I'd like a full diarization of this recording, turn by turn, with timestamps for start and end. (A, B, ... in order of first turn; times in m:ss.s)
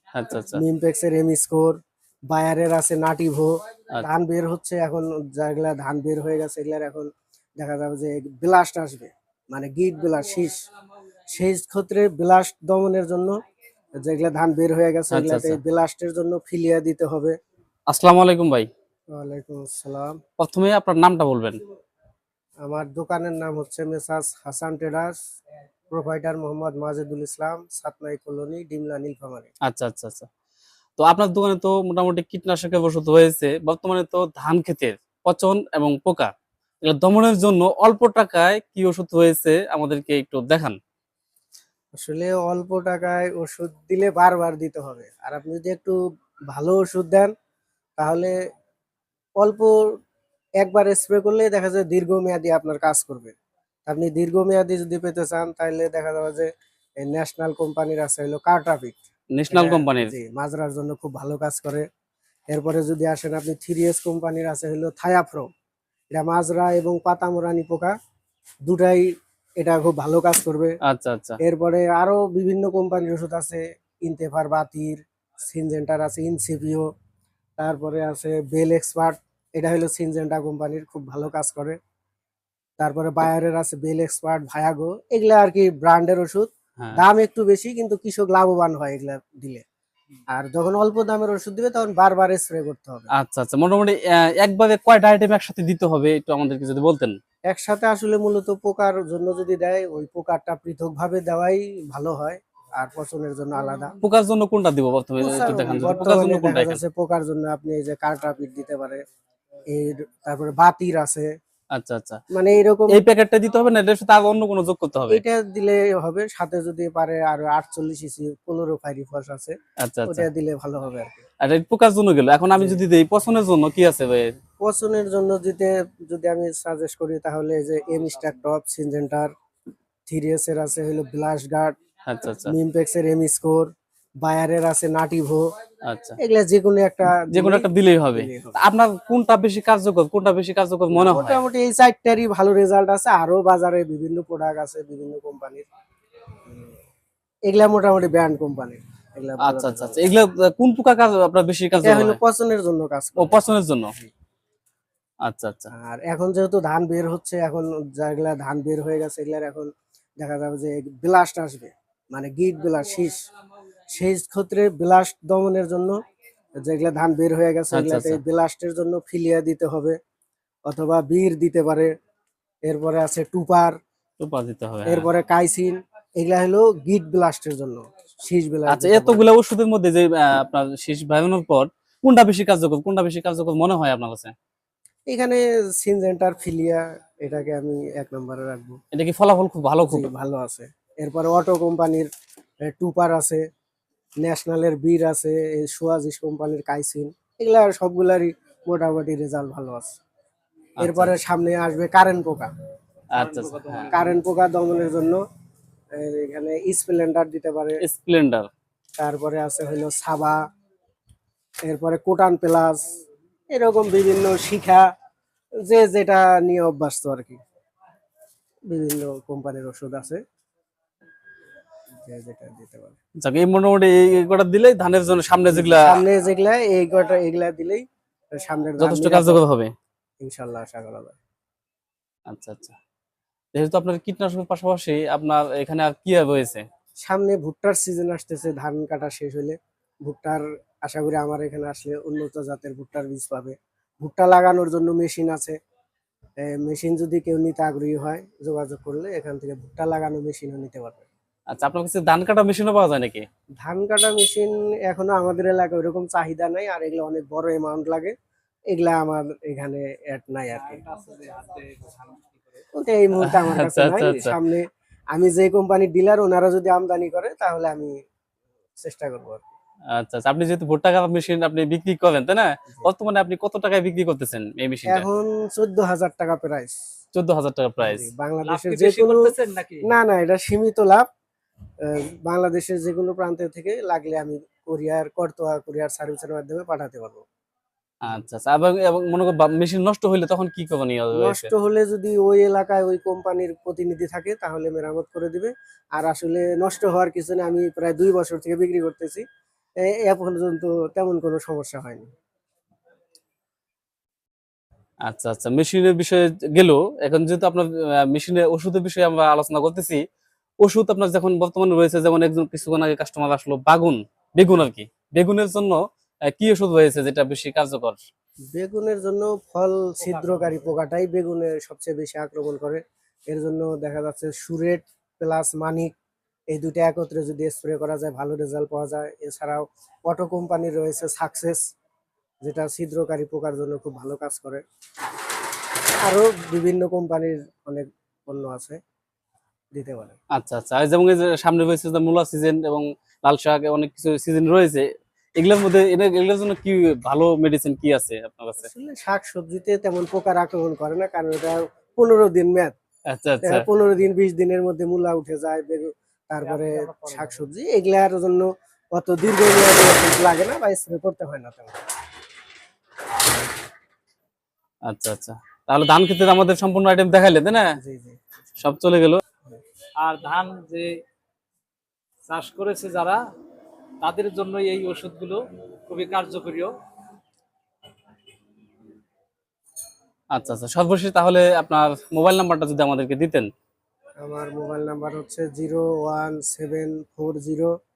0:00.1-0:00.6 A
0:00.5-0:01.8 B
0:02.3-0:07.1 B
0:07.6-0:10.6 B
0:11.3-0:13.4 B
0:14.0-0:17.4 B
0:15.1-0:15.6 A
0:17.9-0:18.7 A
0:19.1-0:20.2 B
0:20.4-0:21.6 A
0:22.6-0:25.2 B
0:25.9-0:29.5 B
0:29.6-0:30.3 A
0:31.0-0:36.3 A
0:36.8-0:40.8 A
0:42.0-0:46.0 B
0:46.5-0:47.3 B
0:48.0-0:48.3 B
0:49.4-0:49.9 B
0:50.6-0:53.3 B
0:53.9-0:56.5 B
0:57.0-0:59.0 B
0:59.3-1:00.1 A
0:59.5-1:01.8 B
1:02.5-1:05.5 B
1:06.1-1:07.9 B
1:08.6-1:09.1 B
1:09.6-1:10.8 B
1:10.9-1:11.4 A
1:11.4-1:16.9 B
1:17.6-1:21.8 B
1:22.8-1:29.6 B
1:30.3-1:33.1 B
1:33.1-1:37.2 A
1:37.5-1:43.9 B
1:44.0-1:46.8 A
1:45.2-1:49.0 B
1:49.7-1:51.3 B
1:51.7-1:52.2 A
1:52.3-1:53.0 B
1:52.9-1:55.2 A
1:55.1-1:59.6 B
1:59.8-2:00.3 A
2:00.1-2:01.2 B
2:01.4-2:04.3 A
2:02.5-2:02.8 B
2:04.6-2:09.3 B
2:10.1-2:11.7 B
2:12.0-2:12.5 A
2:12.4-2:15.5 B
2:15.8-2:16.2 A
2:16.2-2:18.6 B
2:17.3-2:21.4 A
2:20.9-2:25.6 B
2:27.5-2:30.0 B
2:29.4-2:32.2 A
2:31.8-2:33.4 B
2:33.2-2:33.9 A
2:35.2-2:35.7 A
2:35.7-2:43.2 B
2:43.9-2:46.0 B
2:46.6-2:50.0 B
2:47.7-2:48.2 A
2:50.7-2:51.9 B
2:52.6-2:53.8 B
2:54.2-2:55.1 A
2:54.8-2:59.2 B
2:58.7-3:04.3 A
3:05.1-3:08.8 B
3:08.9-3:10.1 A
3:09.9-3:12.1 B
3:12.6-3:13.4 B
3:14.2-3:19.9 B
3:20.8-3:21.1 A
3:20.8-3:22.5 B
3:23.1-3:24.1 C
3:23.1-3:23.9 A
3:23.9-3:25.2 B
3:25.9-3:27.8 B
3:27.8-3:28.5 A
3:29.0-3:30.4 B
3:31.6-3:32.9 B
3:33.5-3:34.8 B
3:35.6-3:37.4 B
3:38.7-3:40.2 B
3:42.0-3:43.0 B
3:43.2-3:46.0 A
3:45.5-3:49.4 B
3:48.8-3:49.7 A
3:50.2-3:51.2 B
3:52.3-3:52.8 A
3:53.5-3:56.6 A
3:57.0-4:05.6 B
4:06.4-4:11.1 B
4:11.5-4:13.2 A
4:13.6-4:18.1 B
4:18.7-4:20.8 B
4:20.5-4:22.6 C
4:22.7-4:27.9 B
4:23.2-4:24.4 A
4:28.8-4:29.5 B
4:29.9-4:35.1 A
4:34.9-4:36.8 B
4:37.1-4:38.1 A
4:37.8-4:39.3 B
4:38.4-4:39.9 C
4:39.8-4:41.0 B
4:41.8-4:47.2 B
4:48.0-4:51.5 A
4:51.1-4:59.2 B
4:59.8-5:02.1 B
5:05.0-5:10.0 A
5:10.6-5:18.0 A
5:18.5-5:25.9 B
5:20.0-5:20.6 C
5:26.5-5:31.6 B
5:32.4-5:34.6 B
5:36.0-5:38.8 B
5:39.7-5:40.2 B
5:40.3-5:44.8 A
5:45.4-5:48.7 A
5:48.6-5:52.7 B
5:53.1-5:53.7 A
5:53.4-6:01.8 B
5:56.4-5:57.5 C
6:04.8-6:07.8 A
6:07.8-6:08.2 B
6:08.6-6:09.2 A
6:10.0-6:11.0 C
6:12.3-6:13.2 C
6:14.0-6:16.7 C
6:20.3-6:23.5 A
6:24.2-6:27.7 B